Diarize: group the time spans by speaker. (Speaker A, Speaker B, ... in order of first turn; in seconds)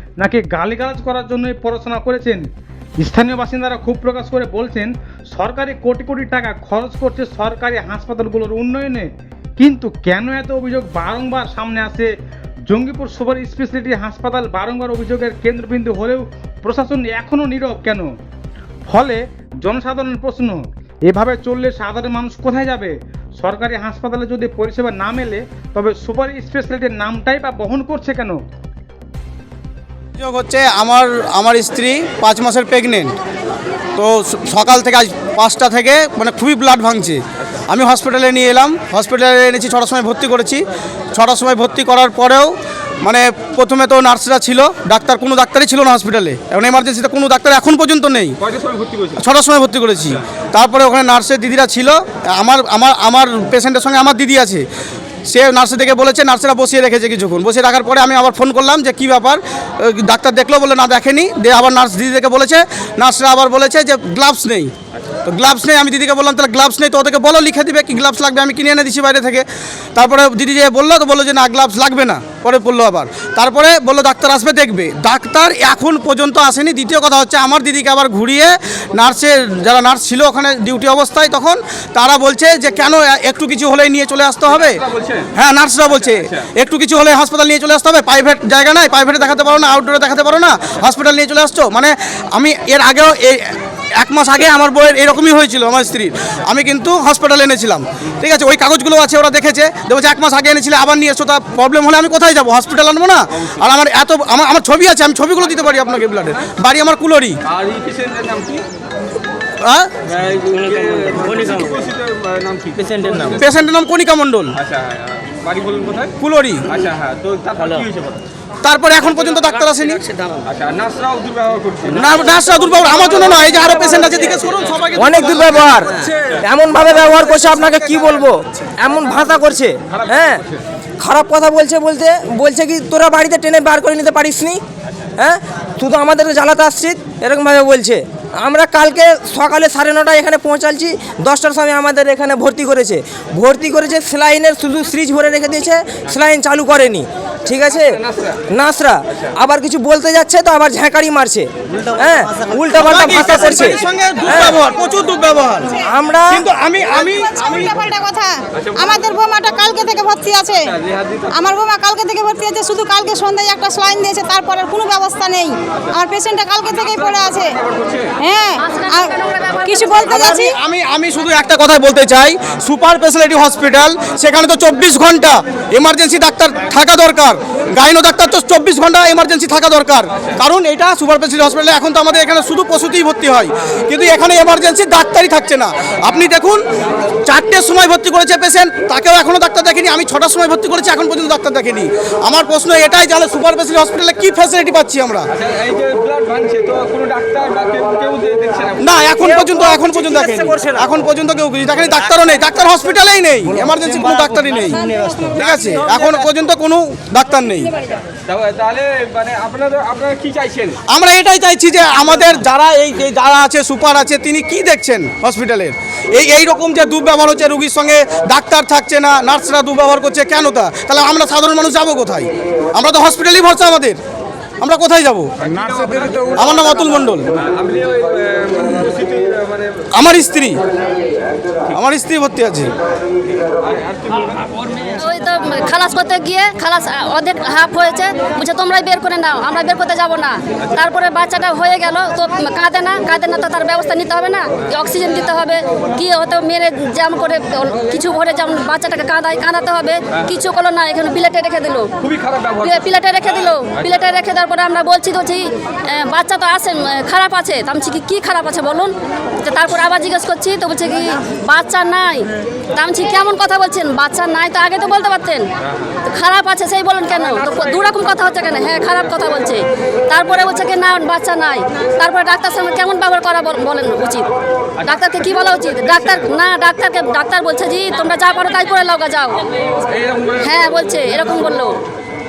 Speaker A: 0.2-2.5, 3.0-12.1, 12.7-18.1, 18.9-28.4
Speaker B: 30.2-33.1, 34.0-48.4, 49.2-54.6, 55.3-64.7, 65.3-84.8, 85.3-107.4, 109.6-109.9, 113.3-114.6, 116.2-116.7, 118.6-120.1, 121.9-125.8, 152.7-157.7, 170.1-186.6, 187.2-195.3, 198.8-204.8, 205.3-207.7, 210.9-224.0, 224.6-225.5, 226.3-227.3, 229.9-230.6, 231.7-232.7
Speaker C: 48.5-49.1, 84.8-85.3, 107.5-108.6, 110.1-113.3, 114.6-116.1, 116.7-118.2, 120.5-122.0, 160.8-161.3, 167.7-168.1, 195.4-198.8, 208.2-210.8, 227.4-229.8, 233.6-234.4, 252.0-252.7, 279.9-280.4
Speaker D: 125.0-130.4, 131.0-134.6, 135.2-154.6, 155.8-156.4, 199.2-200.9, 203.8-206.0
Speaker E: 156.8-160.8, 161.3-167.6, 168.2-169.1, 169.7-170.6, 204.7-205.5
Speaker F: 168.6-170.2, 235.0-252.0, 252.6-265.5, 266.1-274.3, 274.8-279.4, 280.4-281.8